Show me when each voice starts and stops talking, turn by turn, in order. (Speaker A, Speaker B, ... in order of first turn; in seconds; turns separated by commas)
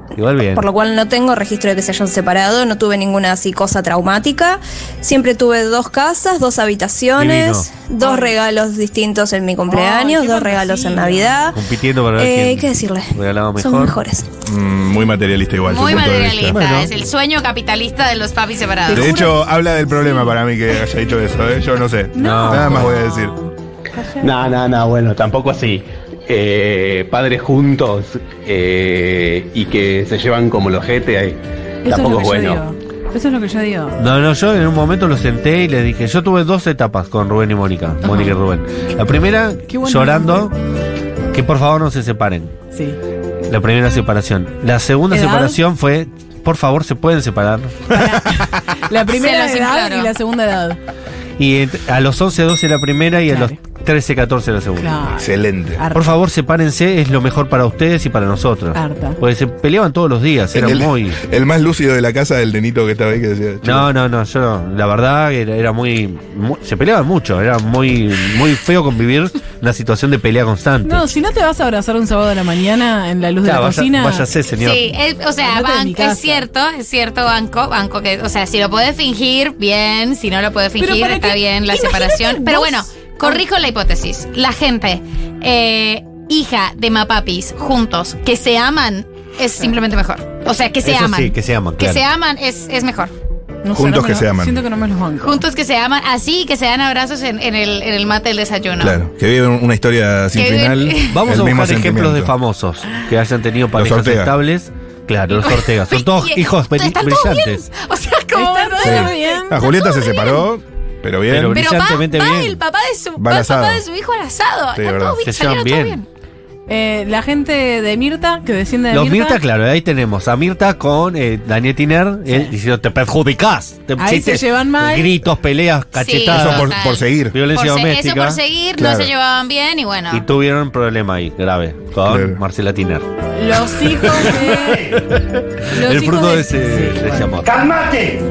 Speaker A: 0.1-0.7, Speaker B: 0.5-11.6, Speaker A: 7.2-7.7, Speaker C: 8.0-8.3, Speaker C: 9.7-11.3, Speaker A: 11.5-14.0, Speaker B: 12.2-14.3, Speaker D: 14.5-16.6, Speaker E: 15.7-19.2, Speaker A: 16.4-16.9, Speaker C: 18.9-20.3, Speaker D: 18.9-23.4, Speaker C: 22.1-23.3, Speaker A: 22.2-22.9, Speaker C: 23.9-24.3, Speaker F: 24.2-31.4, Speaker C: 31.9-34.0, Speaker F: 31.9-32.5, Speaker A: 34.0-40.5, Speaker C: 38.0-38.4, Speaker C: 39.7-40.5, Speaker A: 41.3-42.5, Speaker C: 42.7-43.0, Speaker A: 43.5-47.9, Speaker C: 45.1-45.6, Speaker C: 47.9-50.8, Speaker E: 49.1-50.1, Speaker A: 51.4-55.0, Speaker C: 53.3-53.6, Speaker C: 54.8-56.1, Speaker D: 55.2-55.8, Speaker A: 55.9-61.2, Speaker C: 58.8-59.2, Speaker D: 60.5-63.9, Speaker A: 63.6-71.1, Speaker C: 70.8-74.3, Speaker A: 73.4-74.9, Speaker E: 74.6-93.1, Speaker C: 75.4-76.5, Speaker C: 80.8-83.4, Speaker A: 90.8-92.0, Speaker C: 93.6-95.4, Speaker D: 93.7-94.6, Speaker E: 95.2-99.0, Speaker D: 98.8-102.3, Speaker E: 100.3-101.2, Speaker A: 101.1-107.7, Speaker D: 103.8-104.3, Speaker E: 105.3-110.5, Speaker C: 108.3-109.6, Speaker D: 108.8-111.6, Speaker A: 111.3-112.6, Speaker E: 111.5-116.1, Speaker D: 113.2-113.8, Speaker D: 114.8-115.2, Speaker A: 115.2-116.0, Speaker C: 116.7-119.4, Speaker A: 118.9-126.8, Speaker C: 124.0-125.1, Speaker E: 126.0-130.2, Speaker D: 126.3-127.4, Speaker A: 127.3-128.4, Speaker D: 128.8-129.1, Speaker A: 130.1-133.1, Speaker D: 132.1-132.4, Speaker C: 133.4-135.0, Speaker A: 133.9-137.7, Speaker C: 135.7-137.3